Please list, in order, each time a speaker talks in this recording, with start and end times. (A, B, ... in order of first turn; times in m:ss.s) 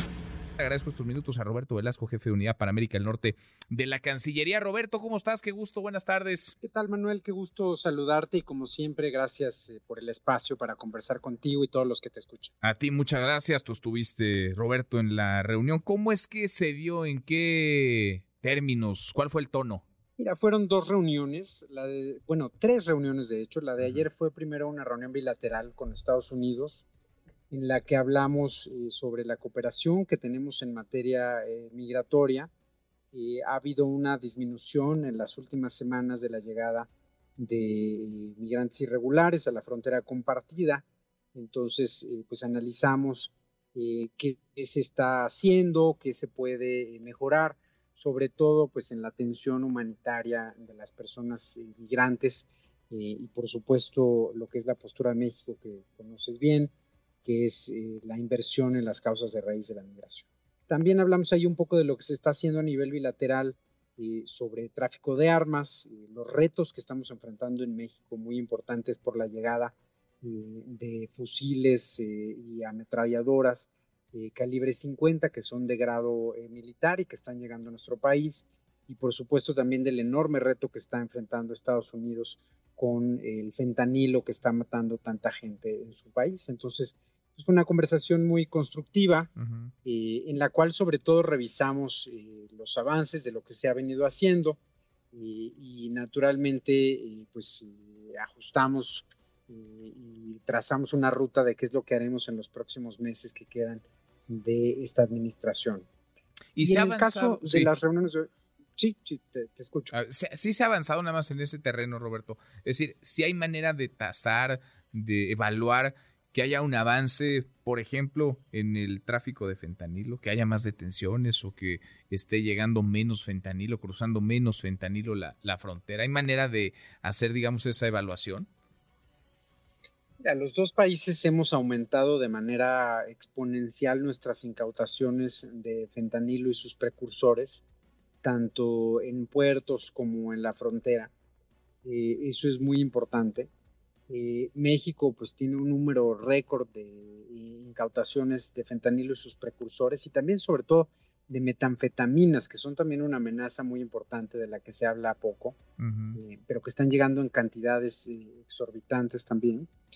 0:00.6-0:06.6 A
0:06.6-0:12.5 B
0:12.6-0:19.8 A
0:20.2-0:26.8 B
0:27.5-0:32.5 B
0:33.1-0:56.7 B
0:57.2-1:29.3 B
1:29.4-1:29.7 A
1:29.8-1:34.6 B
1:35.1-1:45.9 B
1:46.5-1:47.7 A
1:46.6-1:49.9 B
1:49.9-2:08.5 A
2:10.2-2:17.6 B
2:18.2-2:21.1 B
2:21.8-2:23.5 B
2:24.1-2:35.6 B
2:35.8-2:36.2 A
2:36.2-2:39.7 B